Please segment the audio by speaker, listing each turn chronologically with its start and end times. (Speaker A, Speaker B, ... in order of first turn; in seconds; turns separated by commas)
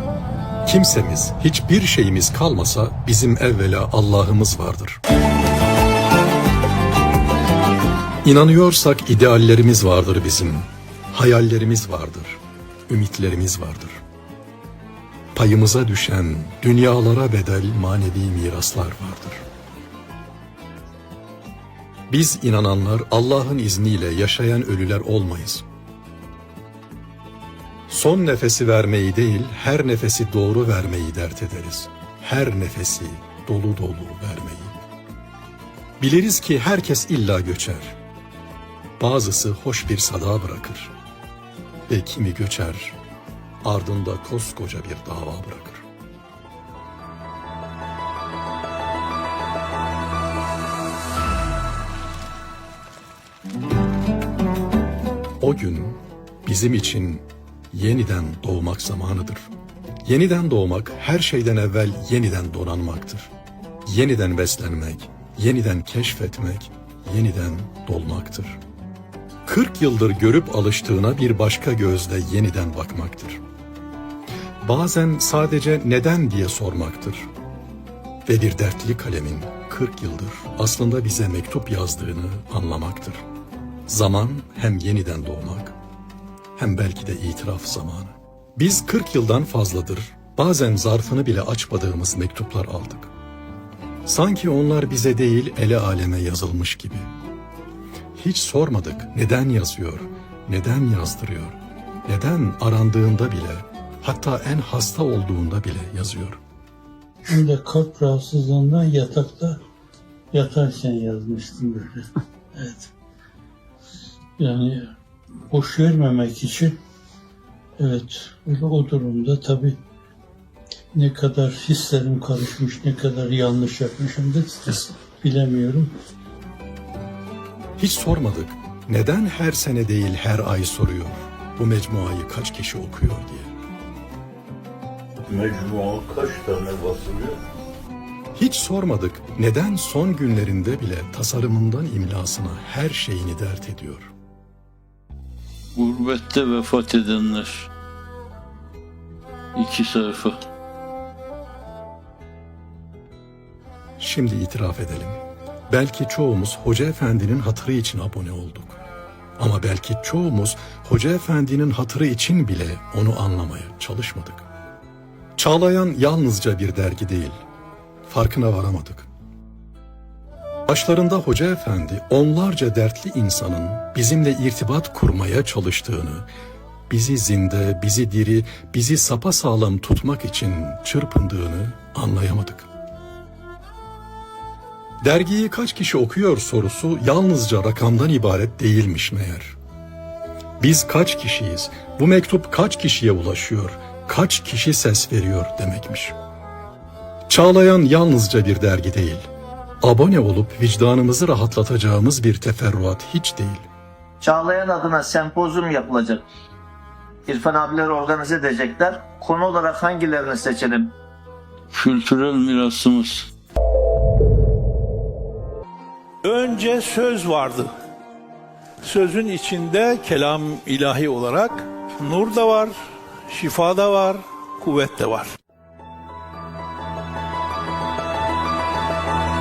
Speaker A: 0.6-5.0, Speaker A: 8.2-14.0, Speaker A: 15.3-19.4, Speaker A: 22.1-25.6, Speaker A: 27.9-34.8, Speaker A: 36.0-38.0, Speaker A: 39.0-40.9, Speaker A: 41.9-43.0, Speaker A: 43.6-45.9, Speaker A: 55.4-59.5, Speaker A: 60.0-63.3, Speaker A: 63.9-68.6, Speaker A: 69.5-73.4, Speaker A: 74.6-77.3, Speaker A: 78.3-83.2, Speaker A: 83.9-85.8, Speaker A: 86.6-93.1, Speaker A: 94.1-97.1, Speaker A: 98.2-106.4, Speaker B: 107.3-109.6, Speaker B: 110.3-112.9, Speaker B: 114.4-115.0, Speaker B: 115.5-116.8, Speaker B: 117.8-119.8, Speaker B: 120.9-125.9, Speaker A: 127.8-133.5, Speaker C: 135.3-137.4, Speaker A: 138.3-144.1, Speaker D: 145.8-147.7, Speaker D: 149.6-150.4, Speaker A: 154.0-158.8, Speaker A: 159.4-164.5, Speaker A: 165.4-167.4, Speaker A: 168.1-169.1, Speaker A: 170.7-176.3, Speaker A: 176.9-182.7, Speaker A: 185.0-189.6, Speaker A: 190.6-196.2, Speaker A: 197.3-199.3, Speaker A: 199.8-203.7, Speaker E: 204.2-206.2, Speaker E: 207.3-210.9, Speaker D: 211.7-213.3, Speaker F: 216.2-217.7, Speaker F: 218.8-222.8, Speaker F: 223.3-225.3